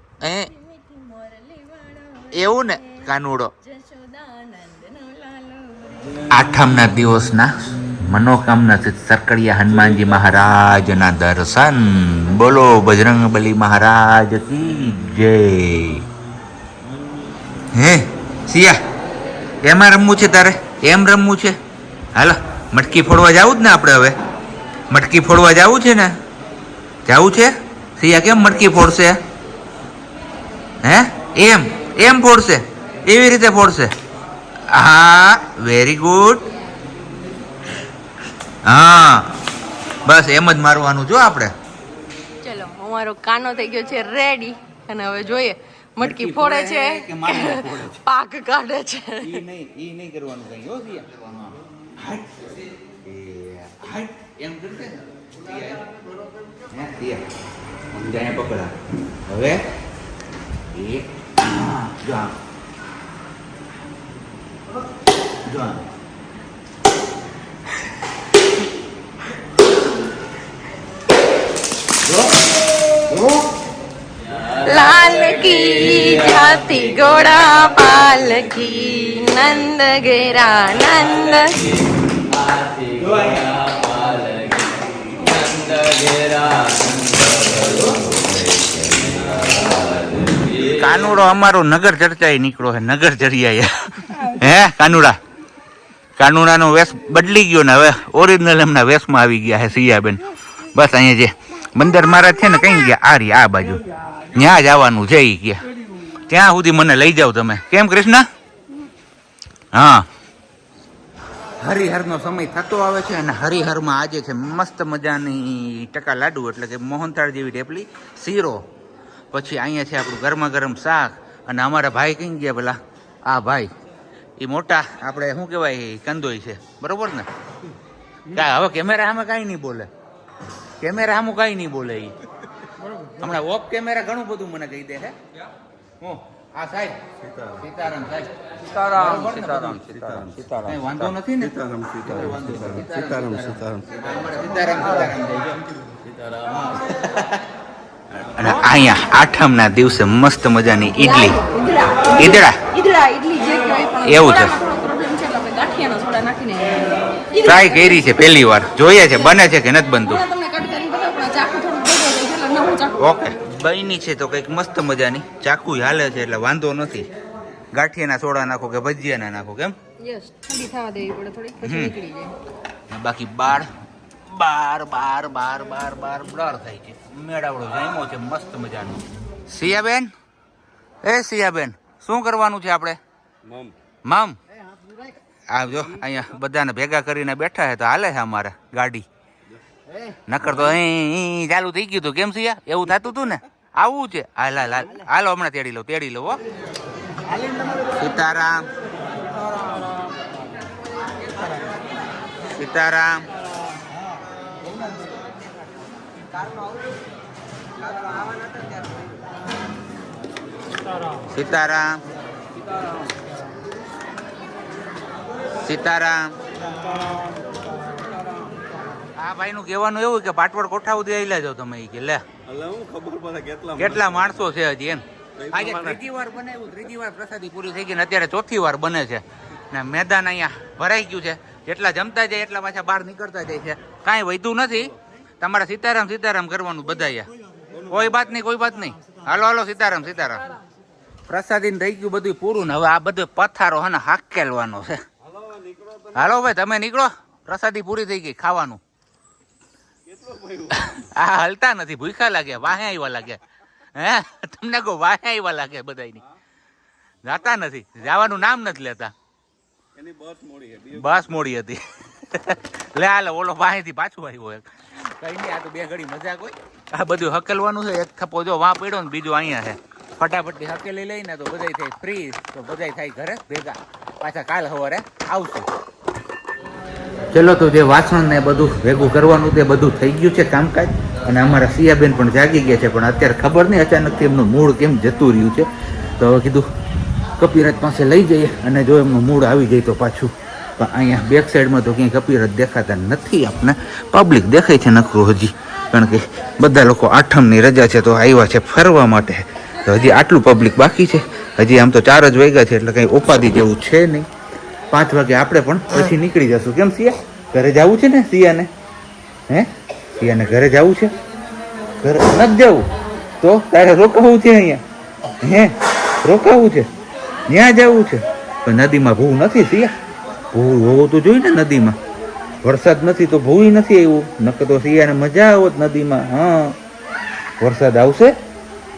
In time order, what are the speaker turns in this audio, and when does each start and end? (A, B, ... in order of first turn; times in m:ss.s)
0:00.2-0:00.5 A
0:00.5-0:03.1 B
0:02.3-0:03.5 A
0:03.6-0:06.2 B
0:06.3-0:16.0 A
0:17.7-0:18.8 A
0:19.6-0:21.6 A
0:22.2-0:24.1 A
0:24.9-0:26.1 A
0:27.1-0:29.2 A
0:30.8-0:33.9 A
0:34.7-0:36.4 A
0:38.6-0:39.3 A
0:40.1-0:41.5 A
0:42.4-0:49.3 B
0:46.0-0:48.0 A
0:49.2-0:55.8 A
0:56.7-0:57.2 A
0:57.9-0:58.7 A
0:59.3-0:59.6 A
1:00.7-1:02.3 A
1:05.5-1:05.8 A
1:12.0-1:12.4 A
1:12.9-1:13.5 A
1:14.6-1:21.7 B
1:23.1-1:23.5 A
1:27.5-1:29.0 A
1:30.5-1:35.2 A
1:36.2-1:43.8 A
1:44.3-1:45.6 A
1:46.3-1:48.3 A
1:49.7-1:50.1 A
1:51.6-1:58.6 A
1:59.3-2:03.7 A
2:04.4-2:07.3 A
2:08.3-2:09.9 A
2:10.8-2:12.1 A
2:13.2-2:15.2 A
2:16.0-2:25.6 A
2:26.4-2:27.4 A
2:28.4-2:31.4 A
2:31.0-2:38.0 B
2:32.2-2:32.6 A
2:34.0-2:34.5 A
2:37.4-2:40.2 A
2:39.1-2:39.4 B
2:40.0-2:43.2 B
2:43.0-2:47.1 A
2:47.7-2:49.7 A
2:50.0-2:52.3 B
2:51.6-2:51.9 A
2:52.9-2:53.7 A
2:54.3-3:00.1 A
3:01.0-3:03.0 A
3:04.1-3:04.4 A
3:05.5-3:09.1 A
3:10.3-3:16.4 A
3:18.0-3:18.7 A
3:22.5-3:23.2 A
3:31.3-3:32.0 A
3:35.6-3:36.3 A
3:39.2-3:42.2 A
3:42.6-3:43.7 C
3:43.7-3:57.3 A
3:57.9-4:00.4 A
4:01.3-4:05.0 A
4:06.1-4:08.8 A
4:10.2-4:10.7 C
4:10.7-4:13.4 A
4:14.0-4:16.2 A
4:17.2-4:19.1 A
4:20.0-4:20.9 C
4:20.9-4:35.7 A
4:37.3-4:45.7 A
4:46.2-4:46.7 A
4:47.4-5:04.3 A
5:04.9-5:08.7 A
5:09.5-5:11.1 A
5:12.0-5:12.9 A
5:13.4-5:14.8 A
5:15.4-5:16.9 A
5:17.5-5:19.9 A
5:20.5-5:22.0 A
5:22.6-5:26.7 A
5:27.6-5:28.3 A